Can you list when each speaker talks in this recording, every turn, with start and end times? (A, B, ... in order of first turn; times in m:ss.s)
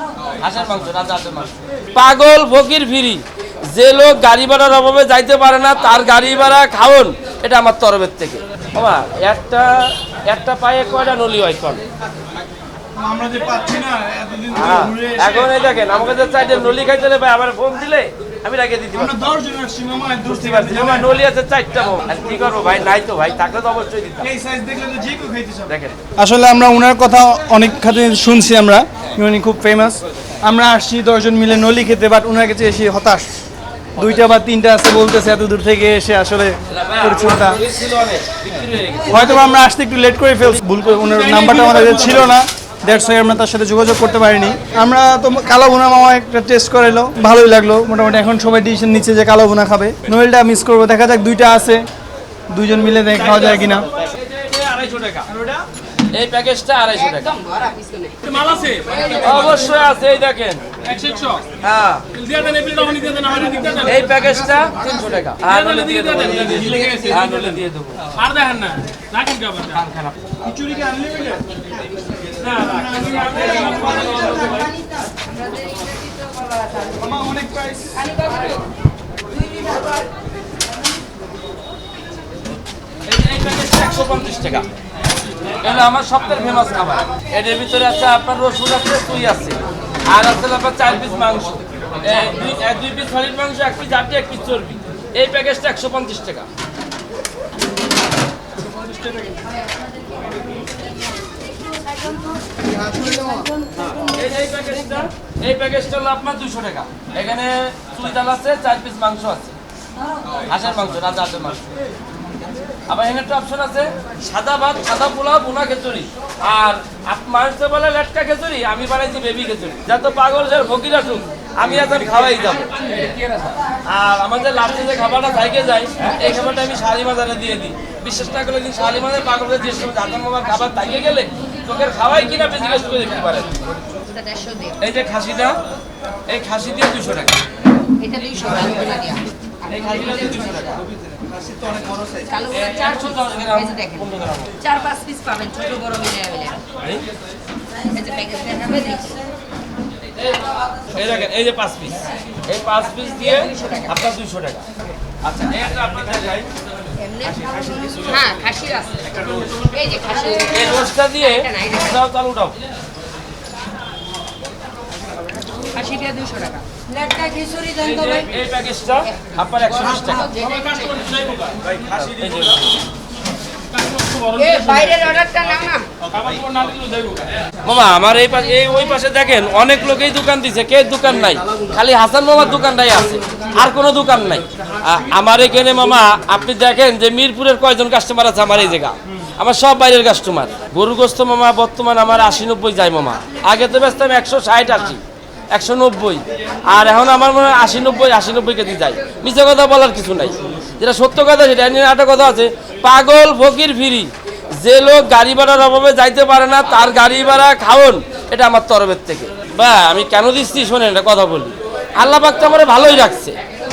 0:00.2-0:11.8 A
0:13.0-0:15.5 B
0:14.5-0:19.3 A
0:18.9-0:21.1 B
0:20.2-0:24.3 A
0:24.2-0:33.3 B
0:25.7-0:26.0 A
0:33.9-0:37.6 B
0:36.7-0:39.2 A
0:39.0-0:51.8 B
0:40.9-0:42.3 C
0:52.5-0:53.8 B
0:53.1-0:55.5 A
0:56.1-0:57.3 A
0:57.0-0:59.8 D
0:58.2-0:59.6 C
0:59.2-1:00.7 A
1:00.8-1:01.4 C
1:01.6-1:02.0 A
1:02.1-1:04.1 C
1:03.8-1:08.1 A
1:05.4-1:09.8 C
1:06.2-1:07.0 B
1:09.7-1:10.2 A
1:10.4-1:11.6 B
1:11.7-1:12.3 D
1:12.4-1:14.7 A
1:12.5-1:14.7 B
1:13.2-1:14.6 C
1:13.8-1:16.9 D
1:17.0-1:18.1 B
1:18.0-1:18.6 D
1:19.3-1:19.9 D
1:23.0-1:24.7 A
1:25.6-1:36.5 A
1:41.8-1:42.3 D
1:42.6-1:43.5 B
1:43.8-1:49.6 A
1:50.4-1:51.7 A
1:52.9-2:13.5 A
2:13.9-2:14.8 D
2:14.8-2:15.6 A
2:16.3-2:17.3 A
2:18.0-2:20.8 D
2:19.7-2:20.8 A
2:22.1-2:24.1 D
2:22.5-2:24.5 A
2:24.6-2:26.6 D
2:27.8-2:29.2 D
2:30.4-2:34.6 A
2:33.2-2:34.0 D
2:35.2-2:36.5 A
2:37.0-2:42.0 D
2:37.3-2:38.0 A
2:40.5-2:42.6 A
2:45.7-2:48.4 D
2:47.8-2:50.2 A
2:49.8-2:51.1 D
2:49.9-2:52.6 C
2:51.6-2:52.8 A
2:53.7-2:55.1 C
2:54.3-2:55.9 D
2:56.1-2:57.3 C
2:57.6-3:15.0 A
3:15.5-3:33.3 A